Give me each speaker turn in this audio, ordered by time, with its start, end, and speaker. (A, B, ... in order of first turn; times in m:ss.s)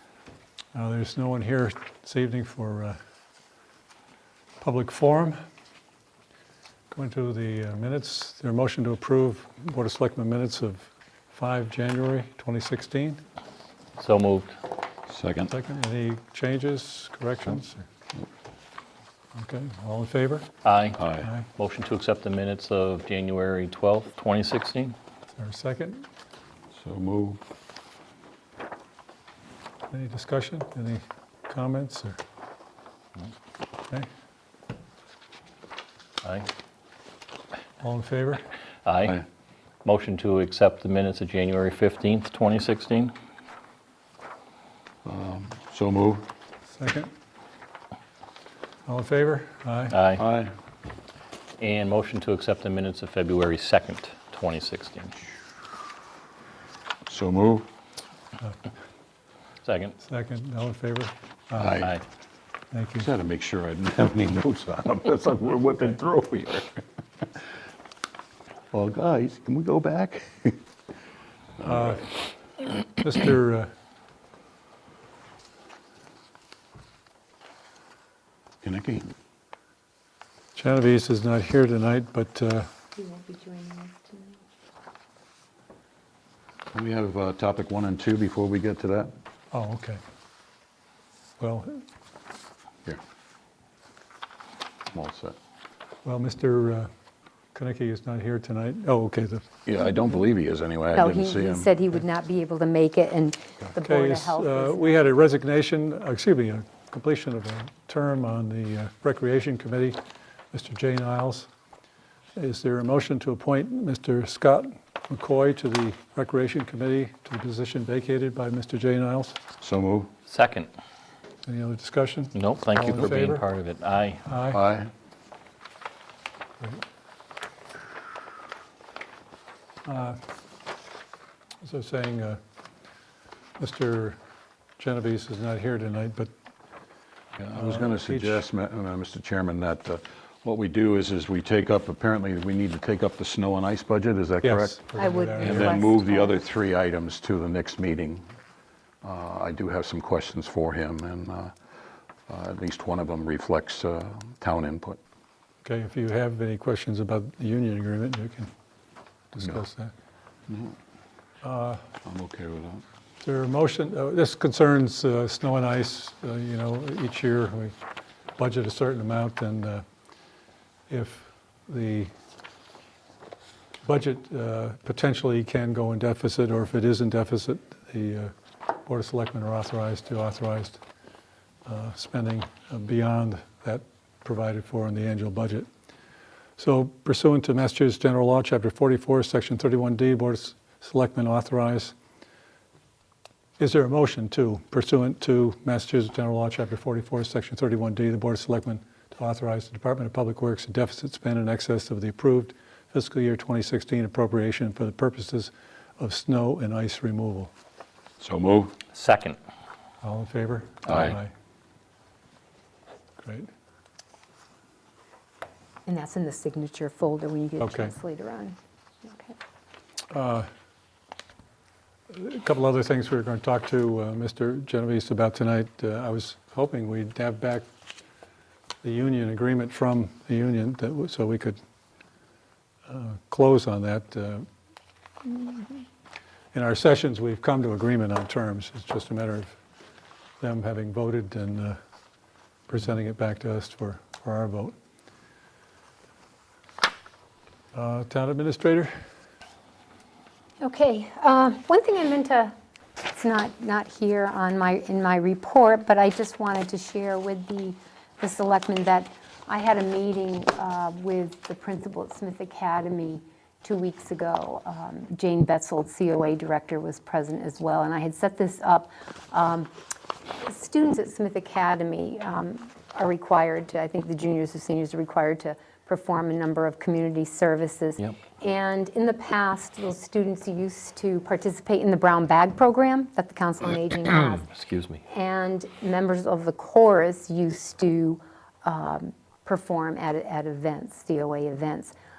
0:00.7-0:03.0 A
0:04.6-0:05.4 A
0:06.9-0:13.2 A
0:14.0-0:14.6 B
0:15.1-0:15.5 C
0:15.5-0:17.9 A
0:19.4-0:20.5 A
0:20.6-0:21.0 B
0:21.0-0:21.3 C
0:21.6-0:25.0 B
0:25.4-0:26.0 A
0:26.7-0:27.4 C
0:29.9-0:32.2 A
0:36.2-0:36.5 B
0:37.8-0:38.5 A
0:38.8-0:39.2 B
0:39.8-0:43.2 B
0:45.0-0:46.3 C
0:46.7-0:47.1 A
0:48.9-0:50.0 A
0:49.9-0:50.2 B
0:50.2-0:50.5 C
0:51.6-0:55.2 B
0:57.1-0:57.7 C
0:59.6-1:00.0 B
1:00.0-1:01.8 A
1:01.6-1:02.0 C
1:02.7-1:03.1 A
1:03.0-1:06.8 C
1:08.7-1:10.6 C
1:11.6-1:11.9 C
1:11.6-1:12.1 A
1:13.0-1:13.7 A
1:18.6-1:19.1 C
1:20.6-1:22.7 A
1:23.0-1:24.4 D
1:26.7-1:29.1 C
1:29.5-1:30.0 A
1:31.4-1:31.8 A
1:34.9-1:35.4 C
1:36.0-1:36.9 A
1:37.5-1:39.5 A
1:39.7-1:41.7 C
1:40.9-1:45.1 D
1:43.8-1:50.0 A
1:50.5-1:51.5 A
1:52.4-1:59.4 A
1:59.6-2:00.1 C
2:00.3-2:00.7 B
2:01.4-2:03.4 A
2:02.4-2:04.2 B
2:04.3-2:04.6 A
2:04.5-2:04.9 C
2:09.8-2:10.2 A
2:11.6-2:12.4 A
2:13.6-2:14.2 A
2:14.8-2:16.3 A
2:17.4-2:24.8 C
2:17.5-2:18.4 A
2:24.4-2:25.9 A
2:25.0-2:26.4 D
2:25.4-2:28.2 C
2:29.0-2:31.5 C
2:32.3-2:35.0 C
2:35.6-2:38.5 A
2:39.3-2:39.9 A
2:40.5-2:40.8 C
2:41.4-2:41.8 A
2:42.0-2:42.8 C
2:43.2-2:47.8 A
2:48.4-2:49.8 A
2:50.9-2:52.1 A
2:53.8-2:58.3 A
2:58.8-3:00.8 A
3:01.7-3:05.7 A
3:06.6-3:12.0 A
3:13.6-3:27.5 A
3:28.2-3:28.8 C
3:28.9-3:29.4 B
3:30.0-3:31.3 A
3:30.9-3:31.2 C
3:33.2-3:33.5 A
3:35.9-3:39.4 D
3:37.6-3:38.0 A
3:40.1-3:40.5 A
3:42.1-3:47.7 A
3:48.8-3:51.6 A
3:52.9-3:54.5 A
3:55.2-3:55.8 A
3:56.5-3:59.6 A
4:00.4-4:01.8 A
4:02.7-4:04.8 A
4:07.7-4:08.9 A
4:10.6-4:12.5 D
4:13.1-4:29.7 D
4:30.4-4:44.5 D
4:44.5-4:45.0 B
4:45.1-4:51.9 D